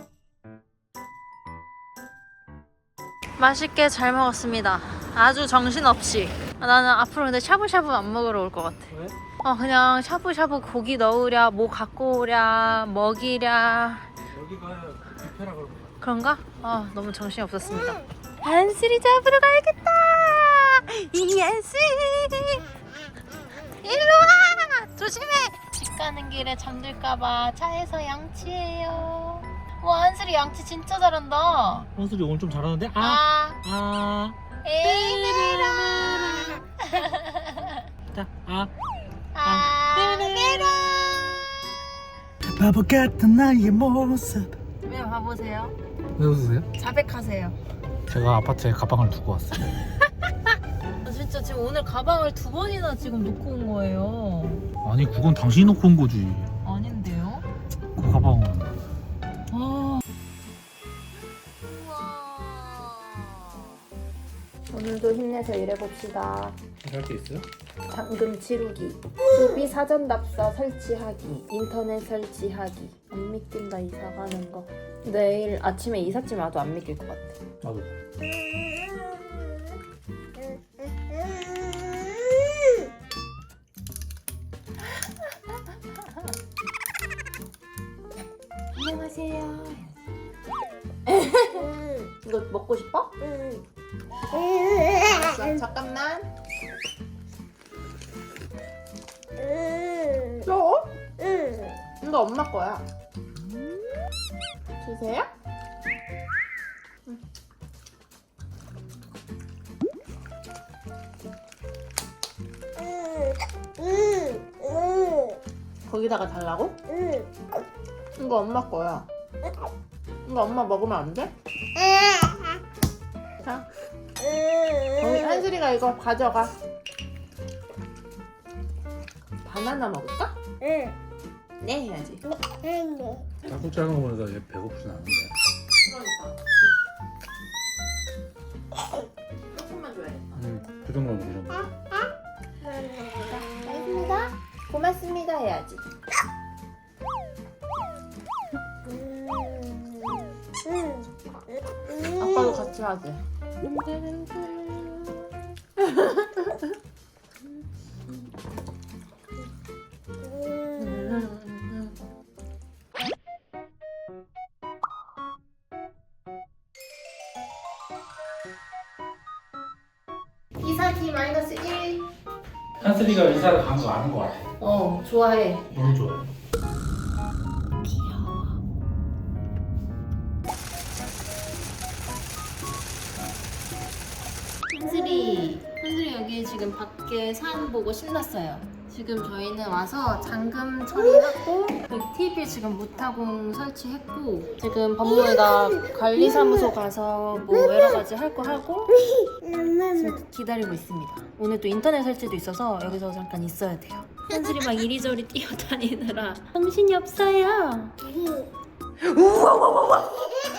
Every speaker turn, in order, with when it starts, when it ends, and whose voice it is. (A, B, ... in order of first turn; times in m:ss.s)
0:03.4-0:14.1 A
0:08.9-0:09.1 B
0:14.3-0:15.9 B
0:16.0-0:22.6 A
0:23.8-0:31.9 A
0:31.9-0:35.8 B
0:33.0-0:33.6 A
0:34.6-0:37.8 A
0:38.1-0:38.7 B
0:39.3-0:41.3 A
0:39.4-0:39.7 B
0:42.5-0:44.5 B
0:44.8-0:45.8 A
0:46.2-0:46.7 B
0:46.8-0:47.6 A
0:48.1-0:49.6 B
0:51.0-0:54.7 A
0:54.8-0:56.5 B
0:56.6-0:57.5 A
0:58.0-0:58.8 B
0:59.5-1:00.0 A
1:01.7-1:03.5 A
1:04.7-1:06.6 A
1:06.8-1:07.5 B
1:07.9-1:17.4 A
1:17.6-1:17.9 B
1:28.7-1:30.0 A
1:31.1-1:33.1 A
1:34.8-1:36.3 A
1:40.4-1:40.9 A
1:42.0-1:42.8 A
1:44.8-1:45.3 A
1:55.8-1:56.8 A
1:58.2-1:59.1 A
2:00.2-2:01.3 A
2:03.4-2:03.7 A
2:04.9-2:06.5 A
2:09.4-2:10.4 A
2:11.6-2:12.2 A
2:13.4-2:15.3 B
2:15.8-2:16.4 A
2:19.5-2:20.4 A
2:20.3-2:21.7 B
2:23.0-2:25.8 A
2:31.9-2:35.2 A
2:35.8-2:36.6 A
2:40.8-2:42.0 A
2:50.6-2:52.0 A
2:52.8-2:54.4 B
2:54.6-2:55.7 A
2:55.7-2:56.3 B
2:57.8-2:58.6 A
3:04.7-3:18.9 A
3:19.9-3:28.0 A
3:29.0-3:30.0 A